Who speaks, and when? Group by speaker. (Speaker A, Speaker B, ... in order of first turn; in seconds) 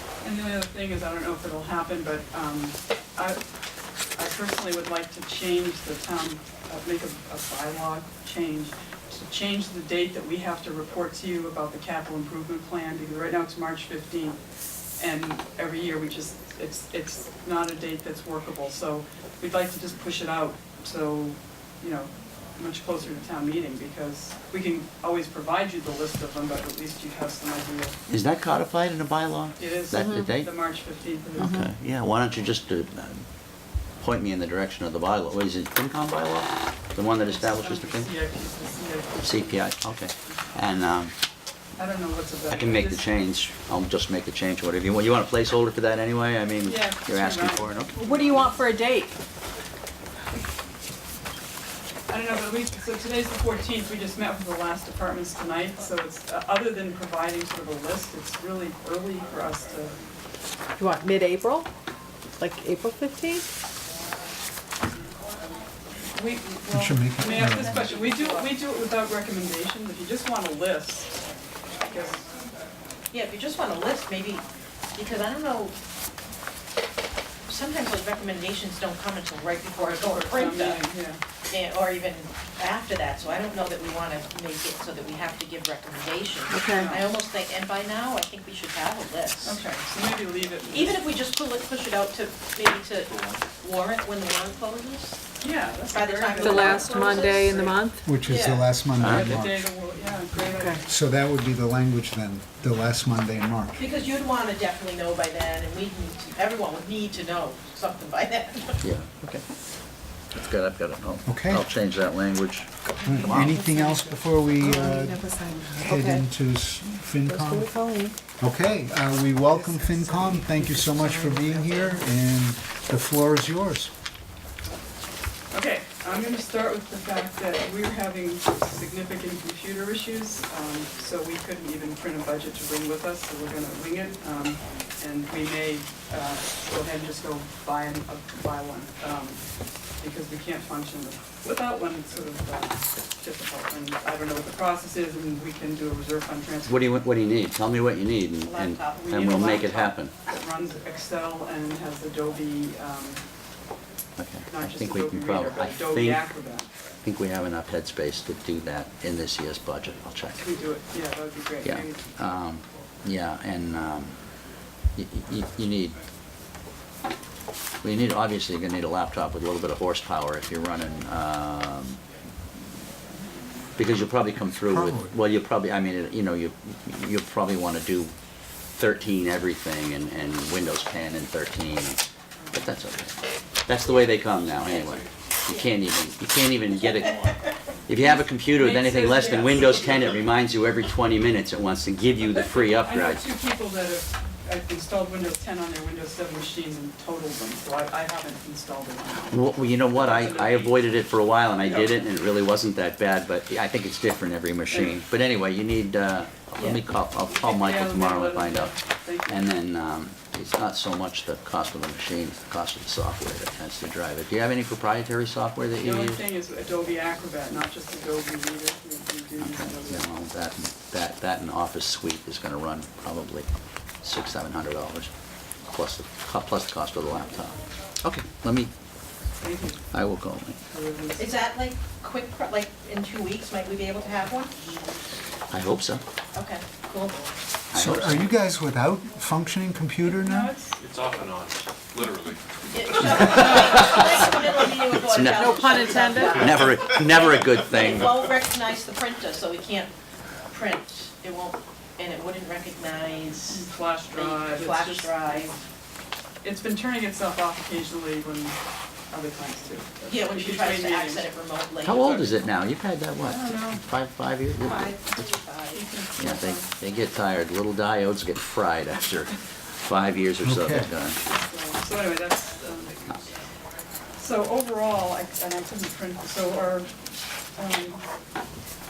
Speaker A: 0.2-3.4, 4.2-14.4, 15.0-28.0, 29.6-31.7, 37.3-39.7, 41.8-43.1, 46.6-48.6, 52.1-60.0, 66.1-71.2, 71.8-72.2, 79.9-81.2, 86.7-87.0, 89.4-91.0, 95.4-97.6, 99.0-100.9, 125.5-139.4, 140.0-146.8, 149.0-153.2, 154.5-156.7, 160.4-162.1, 188.4-190.2, 192.3-200.8, 201.6-202.1, 207.3-209.4, 215.8-220.1, 229.4-229.8, 230.7-231.4, 240.1-240.8, 253.5-255.6, 256.4-258.6, 259.1-261.3, 263.2-263.8, 265.7-266.7, 271.3-273.0, 274.2-276.9, 277.6-278.0
Speaker B: 28.1-30.5, 31.4-33.3, 34.0-38.1, 39.2-41.1, 42.5-48.0, 99.0-99.4, 108.8-109.4, 110.3-113.5, 146.7-150.2, 154.2-156.2, 157.0-160.4, 161.6-164.2, 165.0-166.0, 167.8-172.0, 173.8-178.1, 178.8-193.2, 199.3-208.8, 209.3-216.2, 219.4-223.5, 224.0-225.1, 225.7-228.7, 229.9-230.6, 235.5-236.0, 237.7-238.3, 243.2-244.0, 245.1-245.5, 246.2-248.1, 261.8-264.9, 266.2-271.2
Speaker C: 48.2-49.1, 60.8-61.6, 67.4-68.5, 73.1-75.8, 77.5-80.8, 81.5-89.6, 90.7-95.2, 95.9-98.7, 103.8-108.8, 148.4-149.2, 187.1-187.5, 231.2-234.5, 236.3-237.2, 242.7-249.9, 250.5-255.6, 260.1-262.4, 264.6-265.8
Speaker D: 48.3-49.0, 60.9-61.6, 62.4-63.4, 86.5-86.9, 96.4-98.1, 100.5-100.8, 113.5-114.0, 114.6-116.2, 117.3-118.2, 245.3-246.4
Speaker E: 66.7-67.9, 98.0-99.7, 100.9-103.8, 111.3-111.7, 113.0-117.8, 118.4-123.9, 174.6-175.1, 237.7-240.5, 270.4-270.9
Speaker F: 240.8-242.4, 243.1-243.4